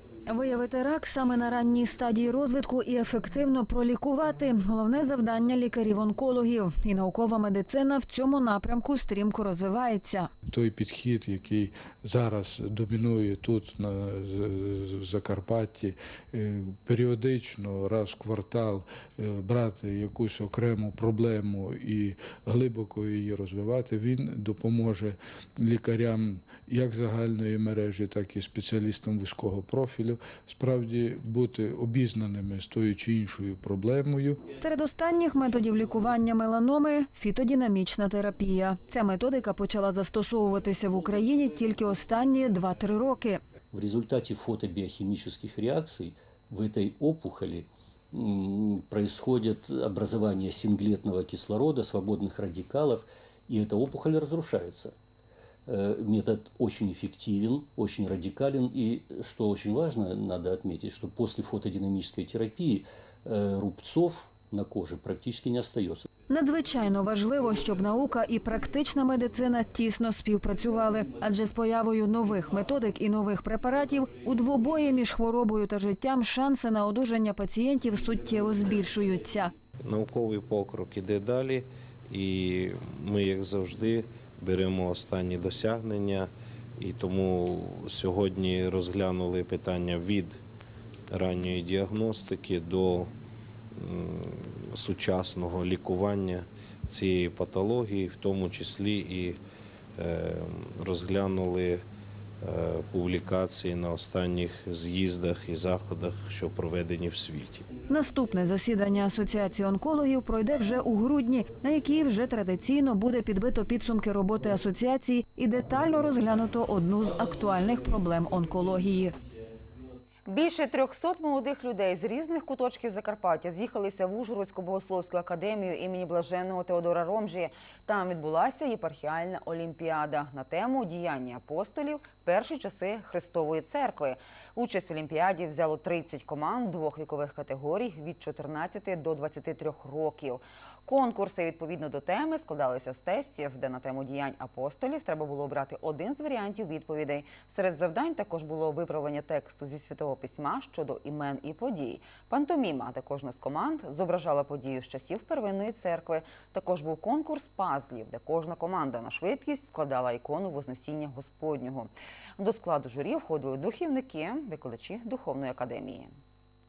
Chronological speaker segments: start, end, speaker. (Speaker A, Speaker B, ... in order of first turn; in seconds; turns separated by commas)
Speaker A: 0.3-10.3, Speaker B: 10.5-34.5, Speaker A: 34.5-43.4, Speaker C: 43.7-55.0, Speaker C: 55.7-66.1, Speaker A: 66.3-79.5, Speaker D: 79.8-90.4, Speaker D: 91.1-93.1, Speaker D: 93.8-99.4, Speaker D: 100.0-101.8, Speaker D: 102.4-107.7, Speaker A: 107.9-119.2, Speaker E: 120.3-166.2